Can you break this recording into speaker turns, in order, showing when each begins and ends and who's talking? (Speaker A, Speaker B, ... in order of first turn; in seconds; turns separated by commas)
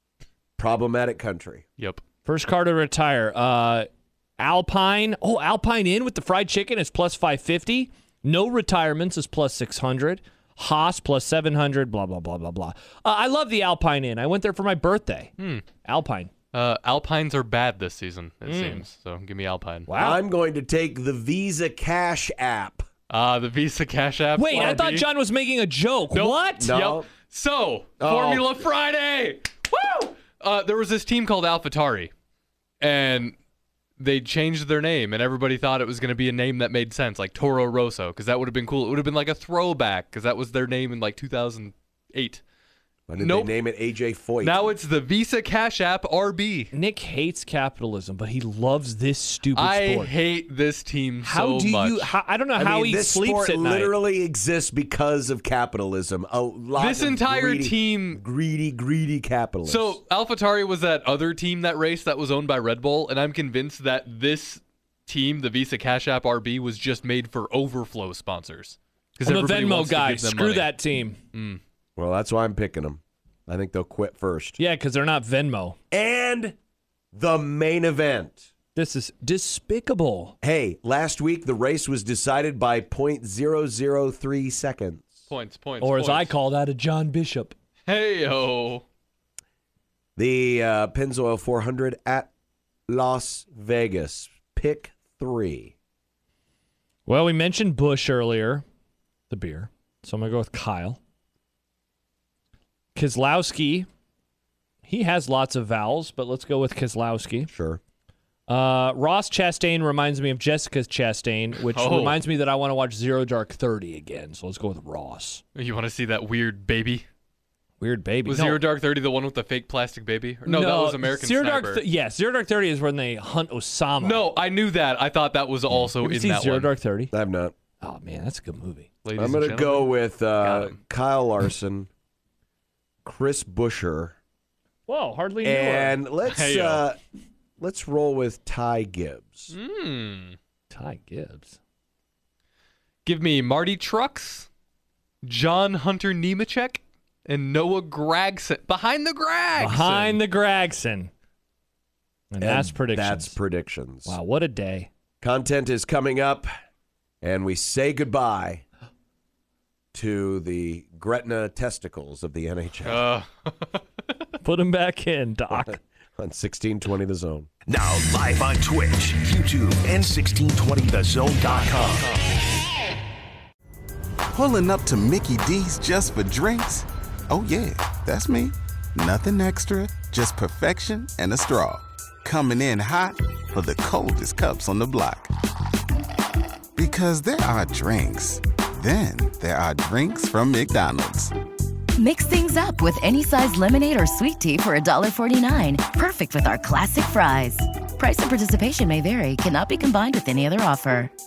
Speaker A: 0.6-1.6, Speaker B: 2.2-15.3, Speaker C: 15.4-15.7, Speaker B: 15.8-16.3, Speaker C: 16.5-19.9, Speaker B: 18.4-18.8, Speaker B: 19.9-20.2, Speaker A: 19.9-22.8, Speaker C: 23.1-25.1, Speaker B: 24.3-26.7, Speaker A: 24.5-24.9, Speaker C: 26.1-32.1, Speaker A: 26.6-27.1, Speaker A: 28.0-28.6, Speaker C: 32.8-33.4, Speaker C: 34.0-42.4, Speaker A: 43.1-44.7, Speaker C: 43.1-43.5, Speaker C: 44.4-46.7, Speaker B: 46.7-50.1, Speaker C: 49.5-52.1, Speaker B: 51.2-53.9, Speaker A: 52.5-60.0, Speaker C: 56.8-58.2, Speaker C: 59.6-70.8, Speaker B: 69.2-71.2, Speaker C: 71.3-71.6, Speaker A: 72.0-74.6, Speaker B: 74.6-75.8, Speaker A: 75.9-76.5, Speaker A: 77.1-78.5, Speaker B: 78.7-80.3, Speaker A: 80.4-85.2, Speaker C: 85.3-86.3, Speaker B: 85.8-87.5, Speaker C: 87.8-88.8, Speaker A: 90.2-92.3, Speaker A: 92.9-95.7, Speaker B: 97.0-98.6, Speaker B: 99.3-101.0, Speaker B: 102.9-103.9, Speaker B: 104.8-107.5, Speaker A: 107.5-107.8, Speaker B: 108.5-115.4, Speaker C: 111.6-112.2, Speaker C: 115.5-117.0, Speaker B: 117.8-118.6, Speaker C: 118.2-121.8, Speaker B: 120.4-124.3, Speaker C: 124.0-126.7, Speaker B: 125.7-127.1, Speaker A: 127.1-127.5, Speaker B: 127.8-128.9, Speaker C: 129.0-130.8, Speaker A: 129.1-131.9, Speaker A: 133.0-134.2, Speaker B: 134.9-136.0, Speaker A: 135.4-137.0, Speaker C: 136.2-136.8, Speaker A: 137.6-139.5, Speaker C: 139.5-140.4, Speaker B: 140.7-141.6, Speaker C: 143.0-144.5, Speaker C: 145.2-150.2, Speaker B: 149.6-151.1, Speaker B: 152.3-153.3, Speaker A: 152.4-154.2, Speaker B: 154.1-154.9, Speaker A: 155.2-156.5, Speaker A: 157.2-158.6, Speaker A: 159.9-163.1, Speaker C: 162.8-163.8, Speaker B: 164.4-165.8, Speaker A: 165.7-167.5, Speaker D: 167.7-172.1, Speaker C: 171.4-172.2, Speaker A: 171.7-172.0, Speaker E: 174.3-185.3, Speaker E: 186.8-191.3, Speaker F: 192.0-201.1